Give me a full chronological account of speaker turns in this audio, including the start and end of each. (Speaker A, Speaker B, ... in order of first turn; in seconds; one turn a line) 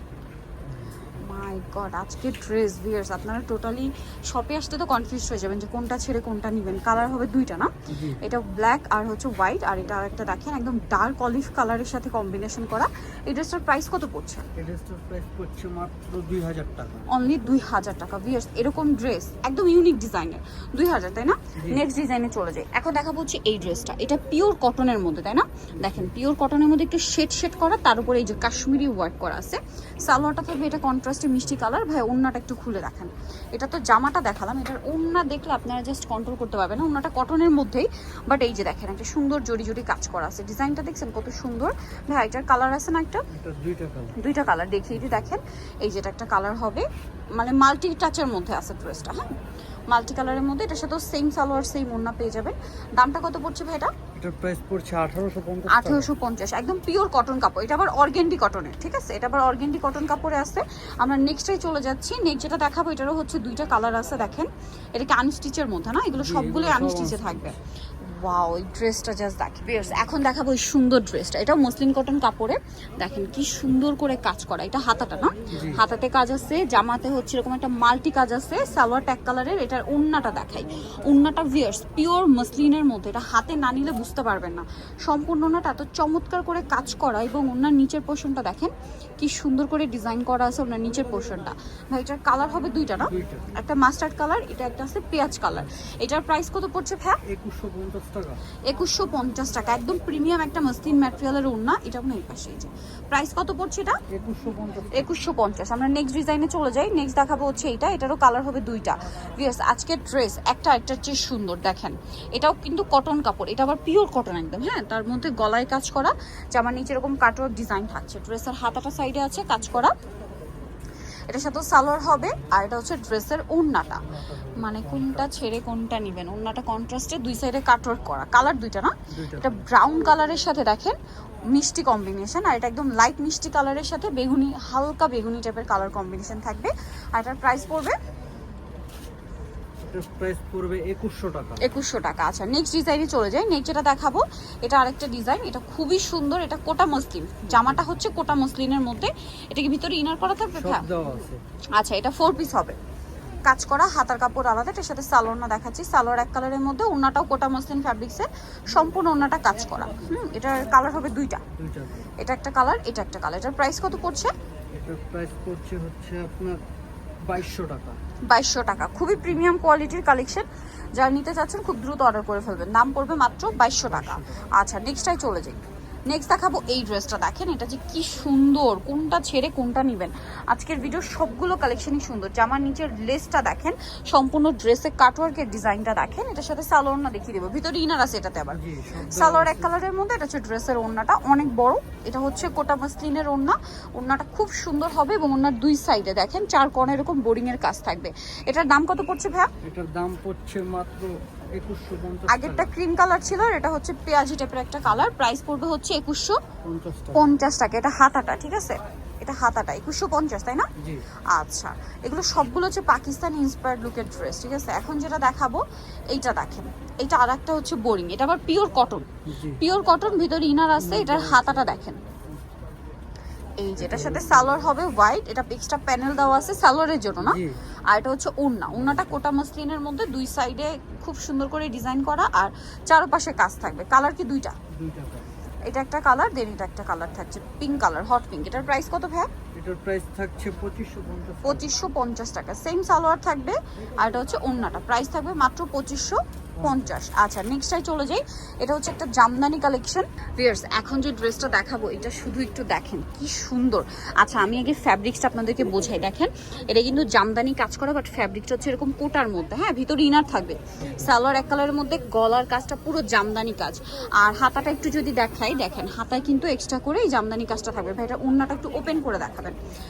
Speaker A: 0.7-1.1
Speaker B: 1.2-14.5
Speaker A: 7.9-8.2
Speaker A: 14.6-17.1
Speaker B: 17.1-43.2
Speaker A: 21.6-21.8
Speaker A: 25.8-26.1
Speaker A: 43.3-44.2
Speaker B: 44.2-53.9
Speaker A: 45.0-45.2
Speaker A: 54.1-56.1
Speaker B: 55.7-97.2
Speaker A: 66.2-67.5
Speaker A: 75.5-75.8
Speaker A: 93.0-93.5
Speaker A: 97.2-98.4
Speaker B: 98.7-104.0
Speaker A: 104.1-105.1
Speaker B: 104.9-119.9
Speaker B: 121.3-131.0
Speaker A: 124.0-125.3
Speaker A: 129.1-129.6
Speaker B: 131.5-138.0
Speaker A: 139.8-141.7
Speaker B: 141.6-150.9
Speaker A: 150.5-151.4
Speaker B: 151.8-152.8
Speaker B: 153.4-161.4
Speaker A: 161.5-162.1
Speaker B: 162.2-164.3
Speaker A: 164.8-166.6
Speaker A: 167.2-168.0
Speaker B: 168.3-199.5
Speaker A: 173.9-174.4
Speaker A: 188.5-189.7
Speaker A: 199.6-202.7
Speaker B: 202.3-206.4
Speaker A: 206.6-207.3
Speaker B: 207.1-210.7
Speaker A: 210.8-211.0
Speaker B: 211.3-222.0
Speaker A: 219.3-219.6
Speaker A: 220.8-221.6
Speaker B: 223.6-234.6
Speaker A: 223.8-224.3
Speaker A: 227.2-227.6
Speaker A: 228.7-229.1
Speaker A: 234.7-235.3
Speaker B: 235.6-239.3
Speaker A: 239.5-241.7
Speaker B: 241.4-269.6
Speaker A: 246.6-246.9
Speaker A: 260.8-261.1